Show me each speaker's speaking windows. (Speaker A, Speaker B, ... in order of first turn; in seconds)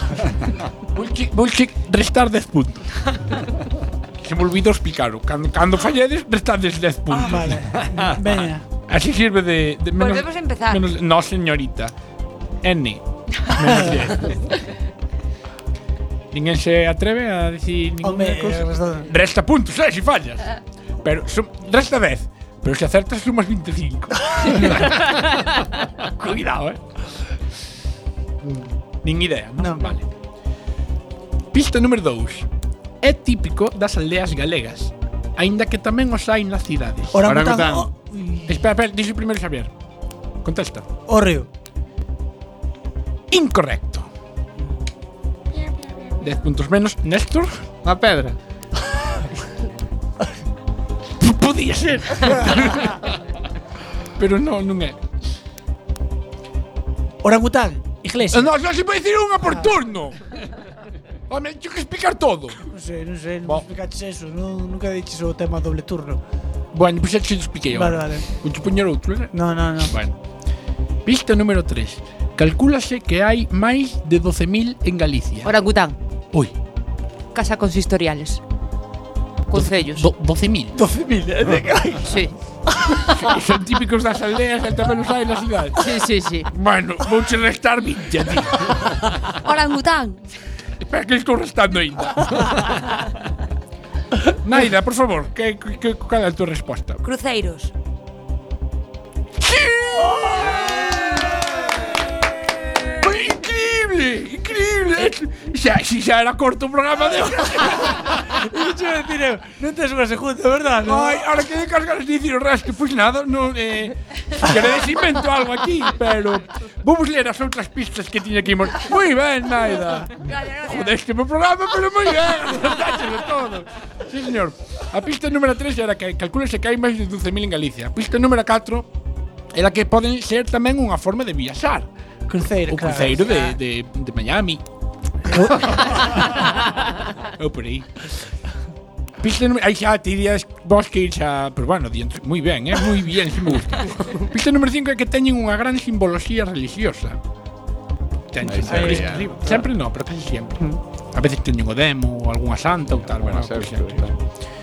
Speaker A: 0.9-3.5, 4.2-7.8, 8.9-11.9, 12.6-14.5, 16.3-26.8, 29.0-30.1, 31.5-32.5, 33.0-37.2, 38.5-39.7, 40.4-40.9, 43.3-44.1, 46.2-47.6, 51.2-53.1, 54.2-55.0, 58.3-60.2, 61.3-62.6, 66.7-70.2, 71.0-75.5, 79.5-80.9, 83.1-85.9, 86.5-88.9, 90.8-92.6, 94.4-97.0, 99.4-101.9, 102.9-108.3, 110.8-128.9, 129.5-131.9, 132.7-134.6, 135.3-136.7, 137.2-138.3, 139.2-147.2, 148.3-154.1
Speaker B: 7.1-8.6, 18.0-19.1, 24.4-24.6, 29.6-29.9, 37.1-38.6, 41.1-41.5, 57.2-58.5, 62.6-66.2, 67.7-68.2, 69.3-70.0, 80.8-82.0, 100.3-100.9, 107.8-111.2, 132.3-133.6, 135.2-136.1, 148.6-149.6
Speaker C: 7.7-8.3, 37.2-37.9, 47.8-48.4, 148.4-149.3, 152.9-154.2
Speaker D: 10.0-10.8, 75.4-76.0, 77.3-78.4, 79.5-80.1, 82.0-82.3, 85.8-86.5, 89.4-90.2, 97.0-97.7, 120.3-120.6